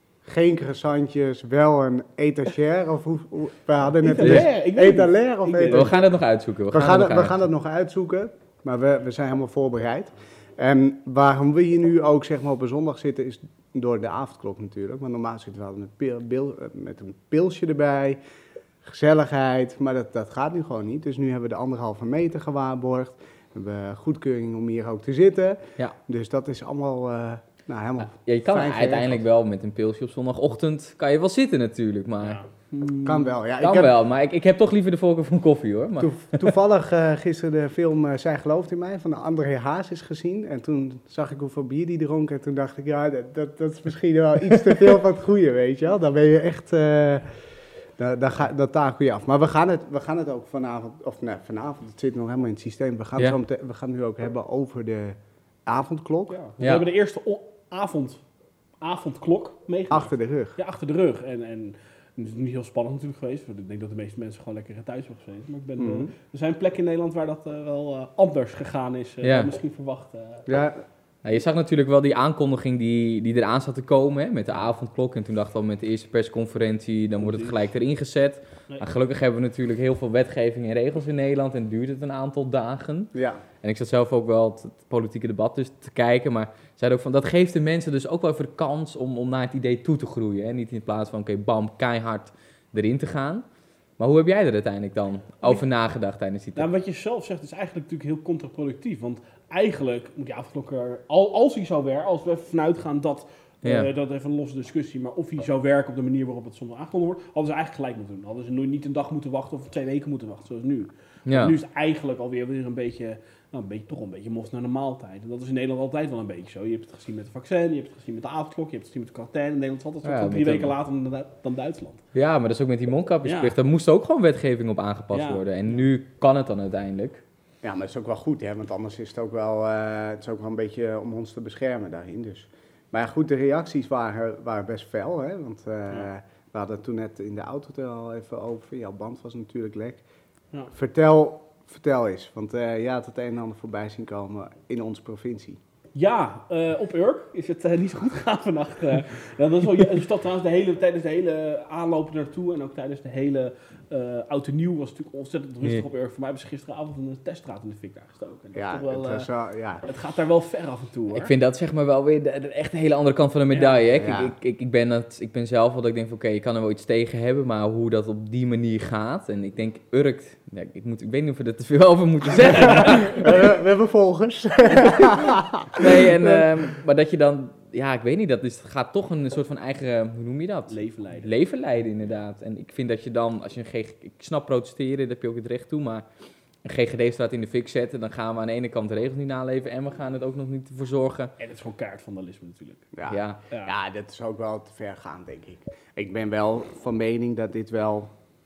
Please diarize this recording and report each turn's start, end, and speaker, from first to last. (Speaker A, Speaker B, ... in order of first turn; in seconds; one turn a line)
Speaker A: 0.2-6.0
Speaker B: 4.0-6.0
Speaker C: 4.2-4.5
Speaker C: 5.6-7.4
Speaker A: 6.7-18.2
Speaker A: 18.8-29.2
Speaker C: 28.1-32.4
Speaker B: 32.2-33.3
Speaker A: 33.0-33.9
Speaker C: 33.6-36.5
Speaker A: 36.0-56.4
Speaker B: 56.3-58.2
Speaker C: 56.6-56.9
Speaker B: 58.8-70.5
Speaker A: 59.9-60.6
Speaker A: 65.8-66.1
Speaker C: 69.2-69.5
Speaker A: 70.5-70.8
Speaker C: 71.2-93.5
Speaker B: 77.2-77.6
Speaker A: 83.2-83.4
Speaker C: 94.0-96.7
Speaker B: 96.6-122.0
Speaker C: 103.6-103.9
Speaker C: 111.3-111.5
Speaker C: 120.0-120.8
Speaker C: 122.1-127.2
Speaker B: 123.2-123.6
Speaker B: 125.1-125.8
Speaker A: 127.6-140.0
Speaker A: 140.7-145.6
Speaker B: 145.9-159.3
Speaker A: 158.6-159.8
Speaker B: 159.8-161.3
Speaker C: 161.1-173.3
Speaker B: 163.5-163.9
Speaker A: 164.0-164.3
Speaker A: 172.7-176.5
Speaker C: 175.8-186.1
Speaker B: 180.7-181.3
Speaker C: 186.7-191.3
Speaker B: 191.4-192.9
Speaker A: 192.9-198.1
Speaker C: 193.1-193.4
Speaker B: 193.5-193.7